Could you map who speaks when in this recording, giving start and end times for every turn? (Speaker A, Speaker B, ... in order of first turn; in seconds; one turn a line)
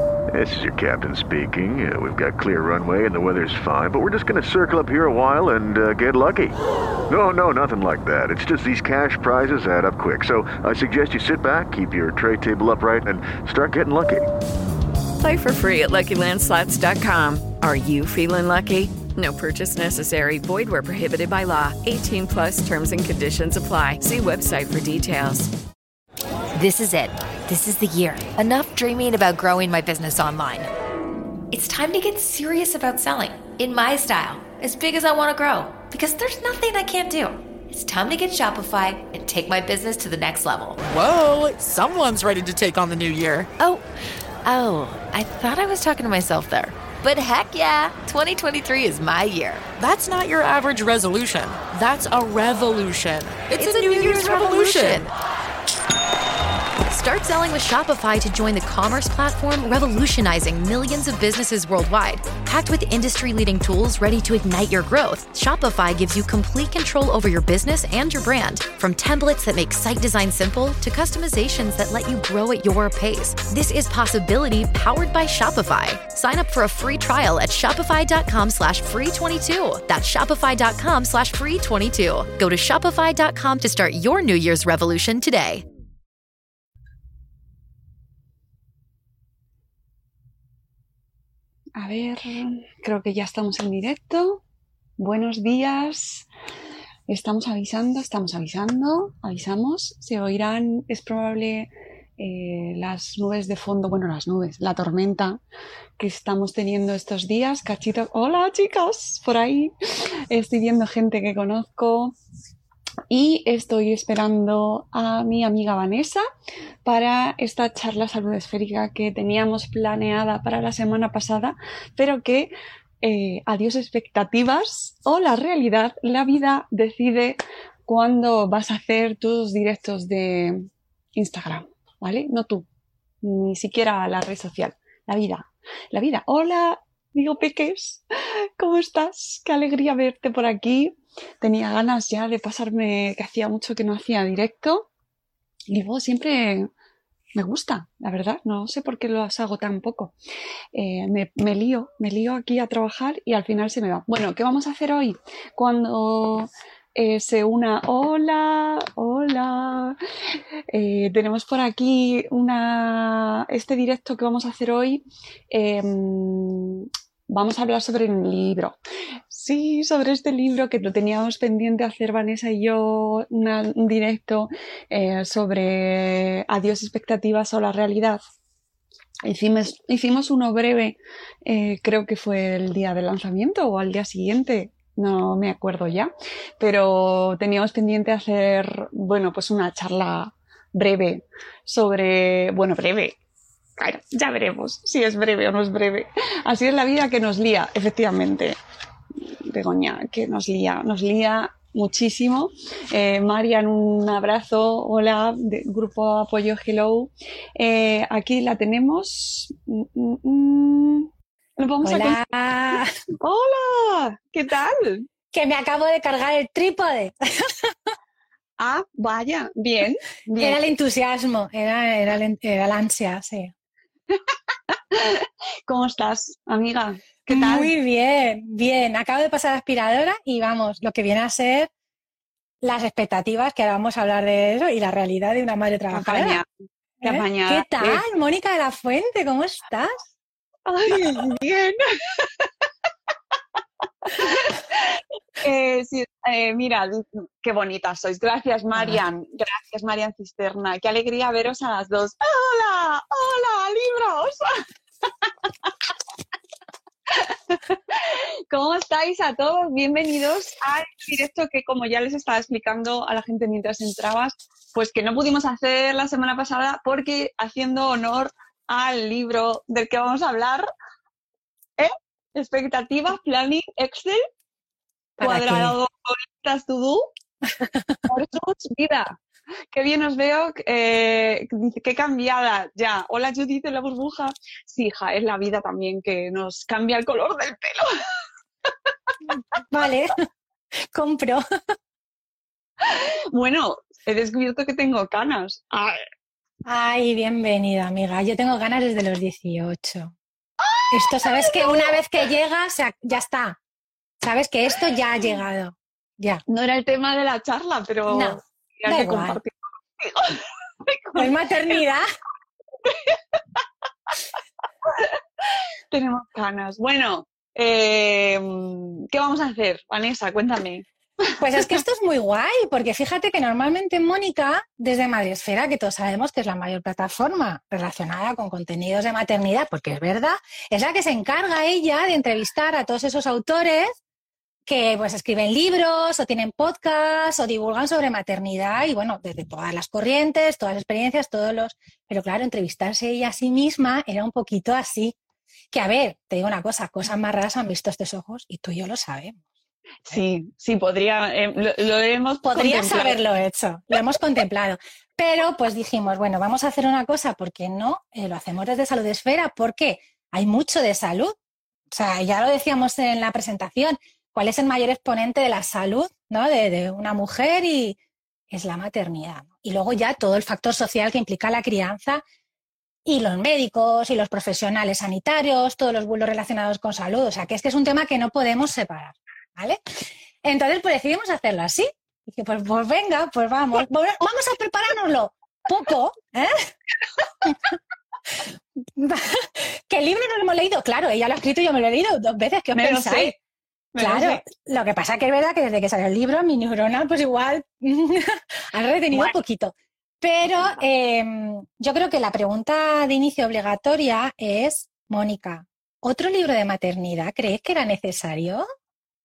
Speaker A: 0.3-6.6
Speaker A: 7.1-14.3
Speaker B: 15.2-25.5
Speaker C: 26.6-30.7
Speaker C: 31.5-40.8
Speaker D: 40.8-43.5
Speaker C: 43.6-43.8
Speaker C: 44.4-49.7
Speaker D: 49.8-55.1
Speaker C: 53.5-55.1
Speaker C: 56.8-85.6
Speaker E: 91.8-94.4
Speaker E: 95.0-96.3
Speaker E: 97.1-105.4
Speaker E: 106.0-109.7
Speaker E: 110.3-112.2
Speaker E: 113.1-116.2
Speaker E: 116.8-132.7
Speaker E: 133.2-138.0
Speaker E: 138.6-144.9
Speaker E: 145.7-146.7
Speaker E: 147.3-150.1
Speaker E: 150.7-160.0
Speaker E: 160.7-168.8
Speaker E: 169.3-178.2
Speaker E: 179.2-193.2
Speaker E: 193.8-198.6
Speaker E: 199.4-212.2
Speaker F: 211.8-212.9
Speaker E: 213.2-215.1
Speaker F: 215.3-217.9
Speaker E: 218.6-220.6
Speaker F: 220.4-223.5
Speaker E: 224.9-227.7
Speaker F: 227.3-231.7
Speaker F: 232.6-236.4
Speaker E: 235.9-236.5
Speaker E: 237.0-238.0
Speaker F: 237.0-240.0
Speaker E: 240.7-242.5
Speaker E: 244.1-254.5
Speaker F: 248.7-249.0
Speaker E: 257.1-270.7
Speaker E: 271.8-274.2
Speaker E: 275.2-277.1
Speaker F: 275.2-275.8
Speaker F: 277.6-278.0
Speaker E: 278.1-279.2
Speaker E: 279.7-287.9
Speaker F: 289.3-290.2
Speaker F: 290.9-291.4
Speaker E: 292.8-296.0
Speaker F: 296.6-300.1
Speaker E: 300.6-302.0
Speaker F: 300.9-303.6
Speaker F: 304.2-306.4
Speaker E: 306.5-311.3
Speaker F: 308.1-309.4
Speaker F: 311.1-312.1
Speaker E: 312.8-313.6
Speaker E: 314.9-320.9
Speaker F: 321.4-333.9
Speaker F: 334.7-345.1
Speaker F: 345.7-349.4
Speaker E: 350.0-353.2
Speaker F: 352.4-361.4
Speaker F: 361.9-368.0
Speaker F: 368.5-372.2
Speaker F: 373.1-379.8
Speaker F: 380.4-386.7
Speaker F: 388.9-393.4
Speaker E: 392.7-393.4
Speaker E: 393.9-394.4
Speaker F: 394.0-408.7
Speaker E: 399.1-399.4
Speaker E: 400.5-400.8